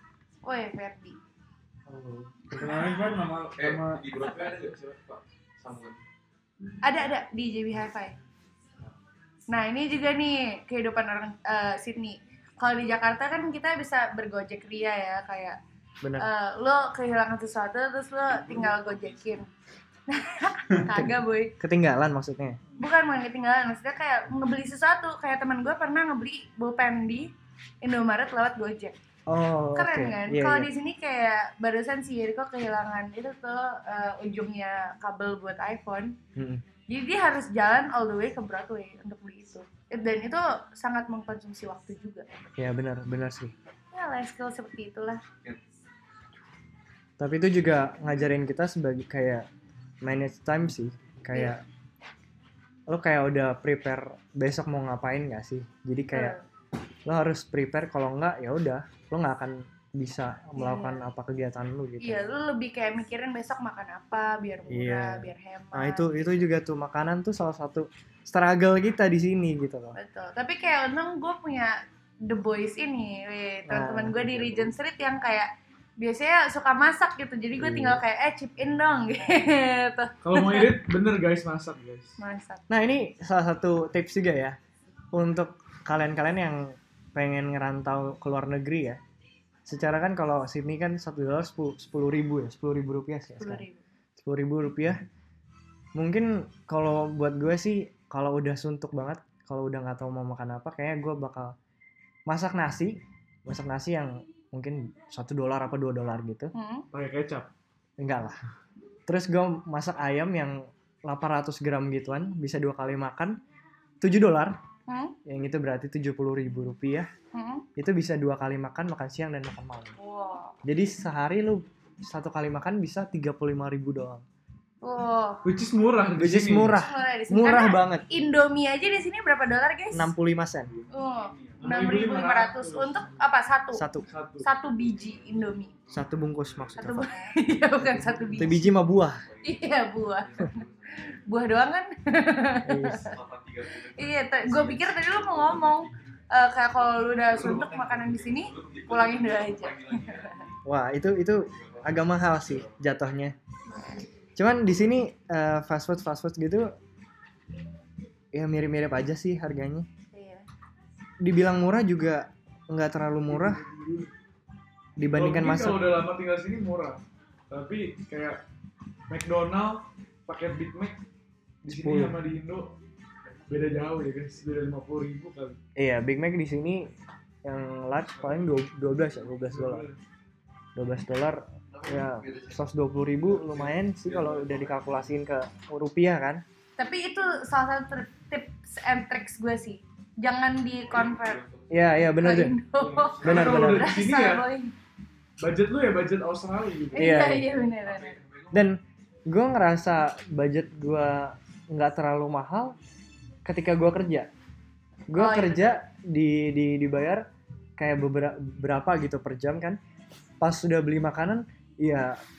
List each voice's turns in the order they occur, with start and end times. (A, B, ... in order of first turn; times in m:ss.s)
0:00.4-0:01.2 A
0:01.9-0:04.5 B
0:03.6-0:06.0 C
0:06.8-0:08.2 A
0:09.5-0:15.6 A
0:16.0-0:16.3 D
0:16.2-0:19.5 A
0:20.1-0:21.5 A
0:20.9-0:22.6 D
0:22.8-0:27.3 A
0:27.8-0:28.9 A
0:29.3-0:30.7 D
0:29.8-0:36.2 A
0:36.4-0:36.6 D
0:36.9-0:42.3 A
0:42.6-0:43.5 D
0:43.9-0:45.2 A
0:47.2-0:49.4 D
0:50.0-0:51.6 D
0:52.9-0:56.4 D
0:56.1-0:56.4 A
0:57.1-1:02.3 D
1:00.6-1:01.0 A
1:02.0-1:06.3 A
1:04.7-1:10.0 D
1:09.9-1:20.8 A
1:13.7-1:14.7 D
1:17.6-1:18.0 D
1:20.2-1:22.2 B
1:22.2-1:22.6 A
1:22.7-1:24.6 D
1:25.1-1:29.0 D
1:29.6-1:33.6 D
1:33.4-1:33.8 A
1:34.2-1:35.0 D
1:35.9-1:41.6 D
1:42.3-1:46.5 D
1:46.5-1:46.9 A
1:46.9-1:47.5 B
1:48.0-1:48.4 D
1:49.1-1:53.4 D
1:54.0-1:54.6 D
1:54.9-1:55.2 A
1:55.3-1:57.1 D
1:57.3-1:57.6 A
1:57.8-2:00.0 D
2:00.0-2:00.6 A
2:00.6-2:04.2 D
2:04.8-2:05.4 A
2:05.4-2:06.8 B
2:06.1-2:08.0 D
2:06.8-2:10.1 A
2:09.9-2:10.7 D
2:10.9-2:13.9 A
2:11.6-2:13.2 B
2:13.7-2:14.1 D
2:14.0-2:14.5 B
2:14.4-2:15.7 A
2:15.9-2:17.1 D
2:16.8-2:18.7 A
2:18.3-2:19.3 D
2:19.4-2:23.1 A
2:20.4-2:20.8 C
2:22.6-2:23.2 D
2:23.1-2:25.9 C
2:23.7-2:30.4 A
2:27.4-2:30.3 C
2:30.6-2:33.4 D
2:34.4-2:36.7 D
2:38.3-2:39.9 D
2:40.1-2:40.4 A
2:41.2-2:43.6 D
2:43.5-2:44.1 B
2:45.0-2:45.9 D
2:45.2-2:48.4 B
2:49.1-2:51.0 B
2:51.6-2:52.8 B
2:51.7-2:52.2 D
2:53.5-2:55.6 B
2:55.8-2:56.9 D
2:57.4-2:59.8 D
2:59.5-3:00.0 B
3:00.8-3:06.4 D
3:01.8-3:02.5 C
3:04.2-3:04.5 C
3:06.8-3:11.4 A
3:11.4-3:11.7 C
3:11.7-3:12.6 D
3:12.2-3:14.7 A
3:12.8-3:14.4 B
3:13.2-3:14.0 D
3:15.4-3:17.3 B
3:16.9-3:18.2 A
3:16.9-3:17.5 D
3:18.2-3:18.5 C
3:18.5-3:22.8 D
3:23.4-3:24.3 D
3:25.1-3:27.3 D
3:25.2-3:25.8 A
3:27.8-3:29.8 D
3:30.4-3:32.2 D